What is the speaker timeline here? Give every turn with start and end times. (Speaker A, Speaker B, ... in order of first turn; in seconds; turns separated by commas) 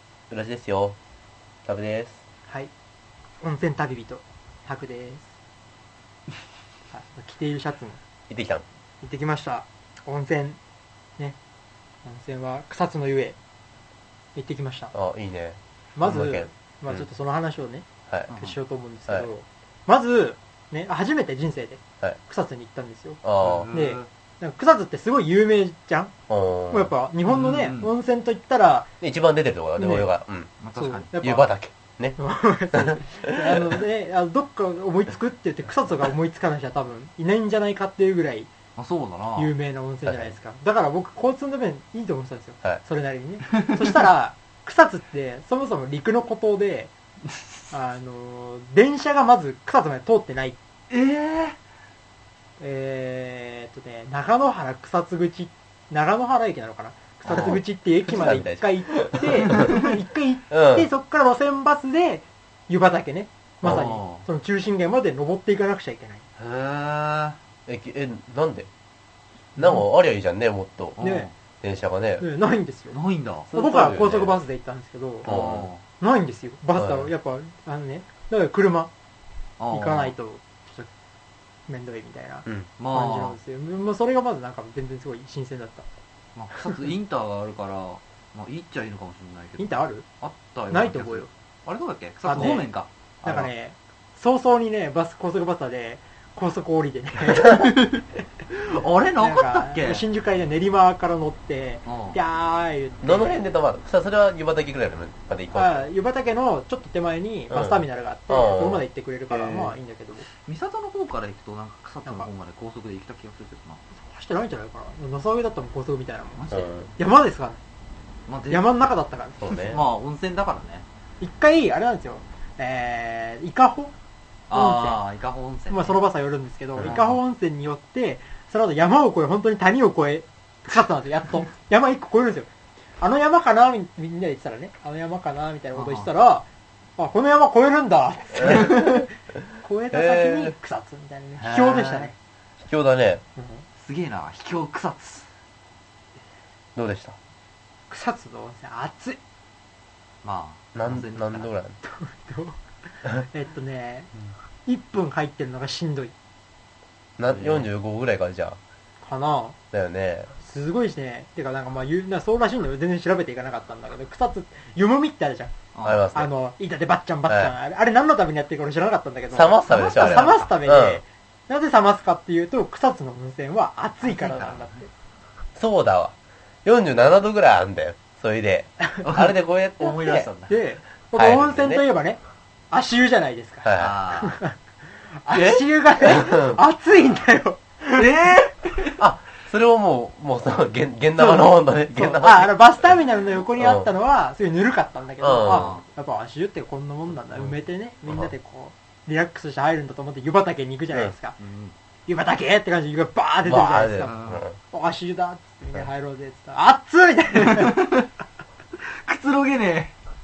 Speaker A: 0.3-1.0, Speaker A: 1.6-2.2, Speaker B: 3.4-5.3, Speaker B: 6.9-8.0, Speaker A: 8.3-8.6, Speaker B: 9.0-10.6, Speaker B: 12.1-13.4, Speaker B: 14.3-14.9, Speaker A: 14.9-17.1, Speaker B: 15.9-26.1, Speaker C: 18.3-18.6, Speaker A: 23.2-23.7, Speaker C: 23.4-24.1, Speaker A: 26.3-26.9, Speaker B: 26.7-28.9, Speaker C: 27.3-27.9, Speaker A: 29.0-30.5, Speaker B: 29.8-30.1, Speaker C: 30.6-31.1, Speaker B: 30.8-31.5, Speaker A: 31.2-32.2, Speaker B: 32.2-38.5, Speaker A: 32.7-33.8, Speaker C: 38.8-39.5, Speaker B: 39.4-46.9, Speaker A: 40.0-40.3, Speaker B: 47.7-50.6, Speaker C: 50.9-51.6, Speaker B: 52.6-66.2, Speaker A: 57.3-59.8, Speaker A: 60.5-60.9, Speaker C: 63.6-64.2, Speaker C: 66.4-67.4, Speaker A: 67.7-68.7, Speaker B: 69.6-69.9, Speaker A: 69.6-71.0, Speaker C: 71.0-71.3, Speaker B: 71.0-71.3, Speaker A: 71.6-72.2, Speaker B: 72.2-73.0, Speaker C: 72.9-73.5, Speaker A: 73.5-74.4, Speaker B: 73.5-78.9, Speaker A: 75.2-75.7, Speaker C: 75.2-75.8, Speaker A: 76.8-77.1, Speaker C: 79.6-80.1, Speaker B: 79.7-80.9, Speaker B: 81.7-85.9, Speaker C: 82.8-83.4, Speaker C: 86.3-93.5, Speaker B: 89.6-90.0, Speaker B: 90.7-91.3, Speaker B: 92.2-92.7, Speaker B: 93.2-97.8, Speaker C: 97.4-100.0, Speaker B: 99.2-103.4, Speaker C: 101.9-102.2, Speaker A: 103.0-105.8, Speaker B: 105.5-110.3, Speaker A: 107.5-109.8, Speaker C: 110.5-113.8, Speaker B: 113.9-117.6, Speaker C: 116.4-116.7, Speaker A: 116.5-116.9, Speaker C: 118.3-118.7, Speaker B: 118.5-119.8, Speaker A: 119.4-119.8, Speaker C: 119.7-120.8, Speaker B: 121.2-123.9, Speaker C: 124.5-126.0, Speaker B: 124.5-125.0, Speaker B: 125.7-132.5, Speaker A: 126.8-127.0, Speaker C: 126.8-127.1, Speaker B: 133.0-136.5, Speaker C: 135.7-136.1, Speaker B: 137.0-142.1, Speaker A: 139.9-140.5, Speaker C: 141.4-142.1, Speaker A: 142.6-143.2, Speaker B: 143.4-143.7, Speaker C: 143.8-145.3, Speaker A: 146.8-147.2, Speaker B: 147.9-149.2, Speaker C: 150.2-151.5, Speaker A: 150.8-151.8, Speaker B: 151.8-154.1, Speaker B: 154.7-156.1, Speaker A: 157.2-158.6, Speaker C: 157.3-157.7, Speaker B: 159.0-159.6, Speaker A: 159.7-160.3, Speaker B: 160.4-165.6, Speaker C: 165.8-166.1, Speaker A: 165.8-166.3, Speaker B: 166.1-174.9, Speaker A: 167.3-167.5, Speaker A: 169.3-171.0, Speaker C: 169.7-170.5, Speaker C: 174.0-174.8, Speaker A: 175.6-180.3, Speaker C: 179.0-180.5, Speaker B: 180.4-188.1, Speaker A: 181.2-181.8, Speaker A: 183.6-184.0, Speaker C: 183.8-184.4, Speaker A: 185.3-186.6, Speaker C: 187.9-189.0, Speaker A: 189.0-192.6, Speaker B: 191.2-201.4, Speaker A: 193.6-193.9, Speaker A: 195.2-195.7, Speaker C: 195.5-195.9, Speaker C: 201.4-201.8, Speaker B: 202.1-207.8, Speaker A: 203.4-204.6, Speaker C: 204.0-204.4, Speaker C: 207.4-208.1, Speaker C: 208.8-209.9